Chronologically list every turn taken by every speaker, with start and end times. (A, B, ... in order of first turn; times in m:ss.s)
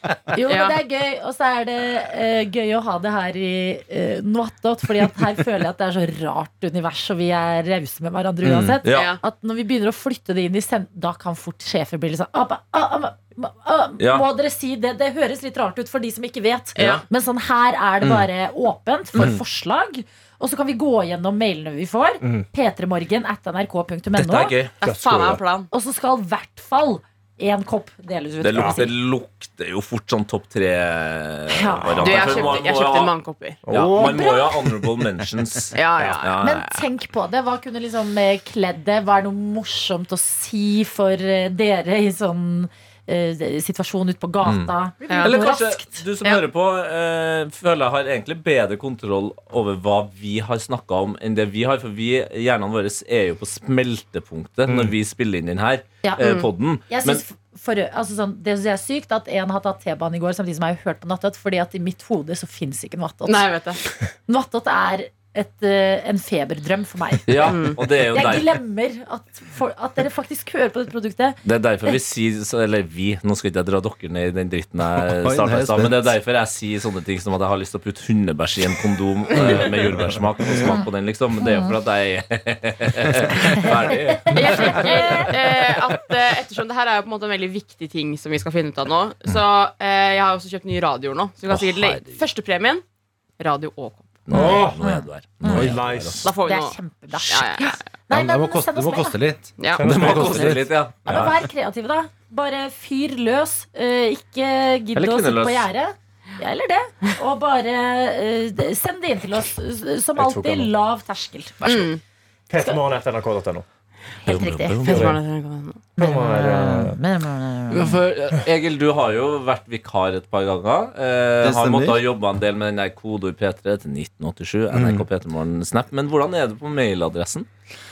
0:00.3-0:24.5 A
0:00.5-0:00.8 B
0:08.4-0:08.8 C
0:08.8-0:09.2 D
0:08.9-0:09.2 B
0:14.0-0:14.2 D
0:16.8-0:17.0 B
0:24.2-0:24.8 D
0:24.8-0:25.7 B
0:24.8-0:25.4 E
0:25.7-0:28.9 A
0:28.4-0:33.1 D
0:28.5-0:28.8 E
0:31.5-0:32.5 A
0:31.8-0:32.4 E
0:32.0-0:33.6 B
0:33.6-0:34.8 E
0:33.7-0:36.6 D
0:34.0-0:34.4 A
0:35.7-0:36.8 B
0:36.4-0:46.4 A
0:44.4-0:57.2 D
0:45.1-0:45.4 B
0:54.6-0:54.9 E
0:56.0-1:03.5 A
1:03.2-1:03.8 B
1:04.3-1:11.4 A
1:07.3-1:08.6 D
1:07.4-1:07.8 B
1:11.4-1:25.6 D
1:15.0-1:16.2 C
1:19.6-1:20.0 E
1:21.4-1:21.7 A
1:24.3-1:32.8 B
1:24.3-1:25.3 A
1:31.5-1:32.2 D
1:33.4-1:34.6 B
1:34.3-1:36.2 D
1:34.3-1:34.8 E
1:35.4-1:36.3 E
1:36.2-1:37.8 B
1:36.4-1:39.2 A
1:38.1-1:39.5 C
1:39.6-1:39.9 B
1:39.7-1:40.7 E
1:39.8-1:41.4 D
1:40.0-1:51.6 A
1:44.9-1:45.7 D
1:50.2-1:50.7 E
1:51.6-1:52.0 B
1:52.5-1:53.6 E
1:54.2-1:55.1 A
1:54.2-1:55.2 D
1:54.8-1:55.2 E
1:54.9-1:55.9 B
1:56.0-1:57.0 E
1:56.0-1:58.0 A
1:57.7-2:07.5 D
2:01.4-2:02.0 C
2:04.7-2:05.0 C